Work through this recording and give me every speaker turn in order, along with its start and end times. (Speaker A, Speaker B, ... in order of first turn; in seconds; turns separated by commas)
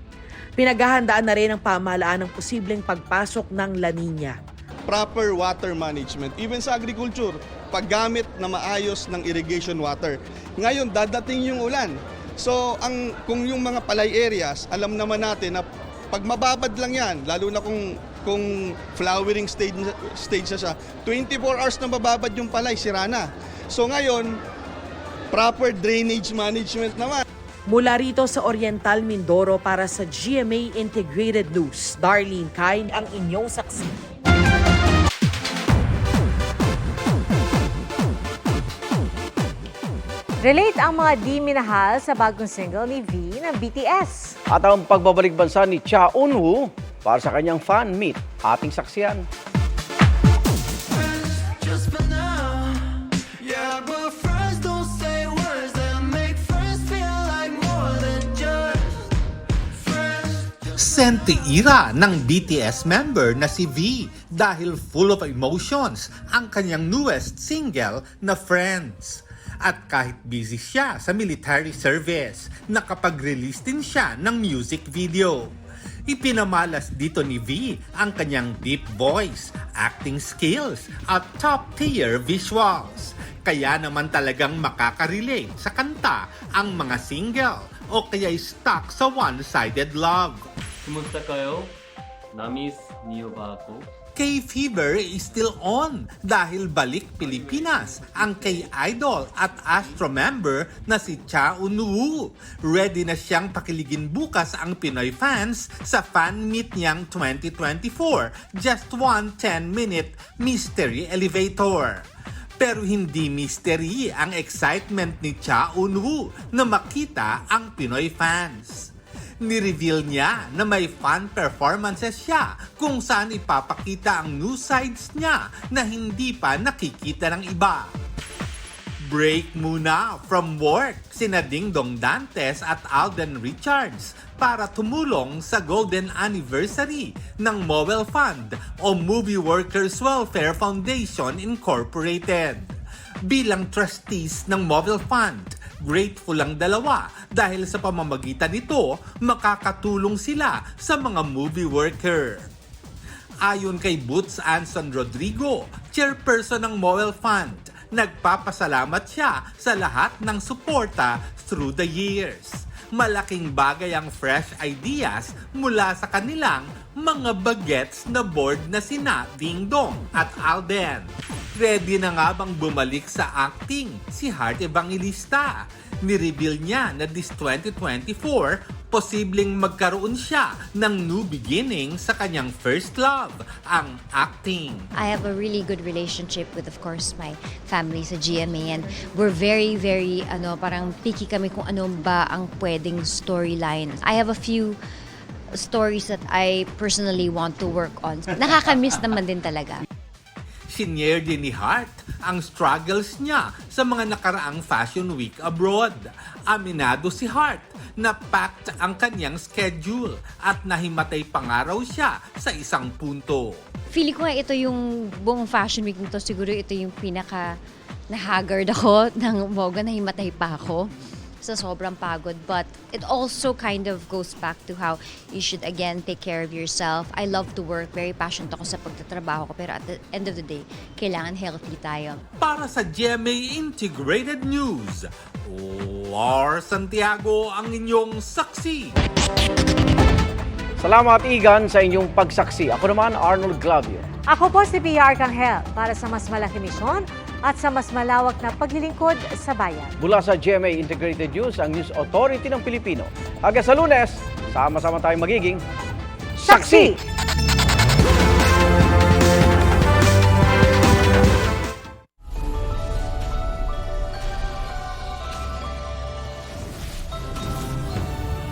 Speaker A: 0.6-4.4, Speaker B: 4.9-24.3, Speaker B: 25.3-27.2, Speaker A: 27.7-34.0, Speaker C: 40.4-44.4, Speaker D: 44.5-49.2, Speaker E: 60.7-75.5, Speaker E: 76.1-90.4, Speaker F: 90.8-91.7, Speaker F: 92.3-93.9, Speaker E: 94.1-112.0, Speaker F: 97.2-98.7, Speaker F: 99.7-100.0, Speaker E: 112.6-127.9, Speaker E: 129.0-142.7, Speaker E: 143.3-152.5, Speaker E: 153.4-171.1, Speaker E: 171.6-184.9, Speaker G: 184.9-194.8, Speaker G: 195.5-199.8, Speaker E: 200.7-213.6, Speaker G: 213.9-217.6, Speaker G: 218.1-220.9, Speaker G: 221.4-232.2, Speaker E: 232.4-239.0, Speaker D: 240.8-244.0, Speaker C: 244.3-249.9, Speaker D: 250.0-255.6, Speaker D: 256.4-256.9, Speaker C: 256.4-257.0